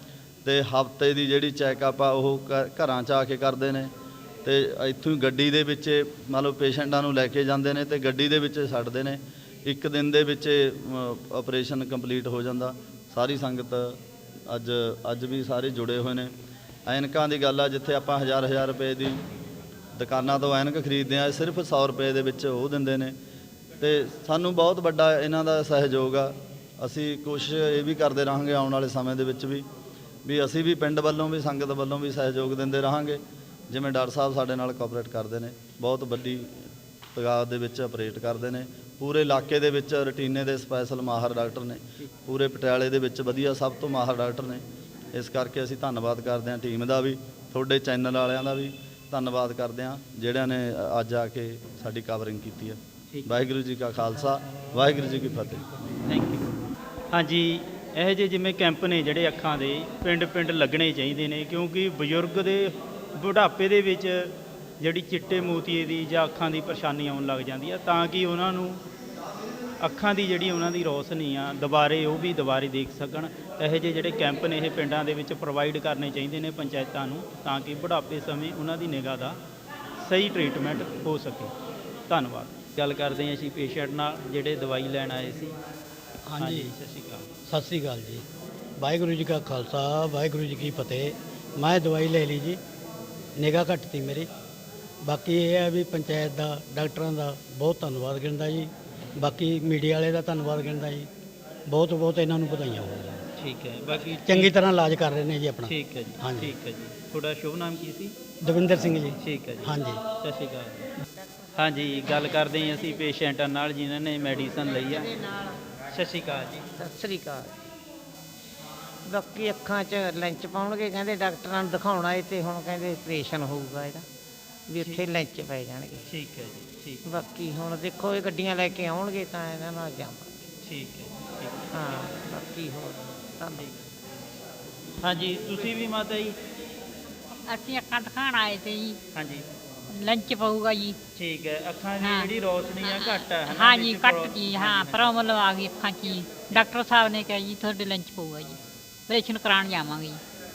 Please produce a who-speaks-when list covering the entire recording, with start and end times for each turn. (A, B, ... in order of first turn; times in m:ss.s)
0:00.4-0:03.9 A
0:04.4-0:16.3 A
0:16.9-0:19.2 A
0:20.0-0:23.2 A
0:23.8-0:29.6 A
0:30.2-0:55.6 A
0:56.0-1:08.8 B
1:09.8-1:19.4 B
1:20.0-1:21.5 B
1:22.1-1:25.5 B
1:26.3-1:26.7 C
1:26.4-1:27.3 B
1:27.5-1:28.2 C
1:28.8-1:32.6 C
1:33.4-1:34.3 C
1:35.0-1:41.1 C
1:41.7-1:43.3 C
1:43.4-1:44.5 B
1:43.9-1:46.5 C
1:45.6-1:48.2 B
1:48.4-1:50.0 C
1:49.1-1:50.9 B
1:51.6-1:55.1 B
1:54.7-1:55.6 D
1:55.9-1:56.7 B
1:56.8-1:57.7 D
1:59.0-2:04.1 D
2:04.7-2:06.0 D
2:06.1-2:07.1 B
2:07.1-2:10.5 D
2:10.6-2:12.1 B
2:11.7-2:13.6 D
2:13.5-2:13.8 B
2:15.0-2:16.4 B
2:17.5-2:19.0 E
2:19.1-2:19.5 B
2:19.9-2:21.0 E
2:21.1-2:25.1 B
2:22.0-2:30.2 E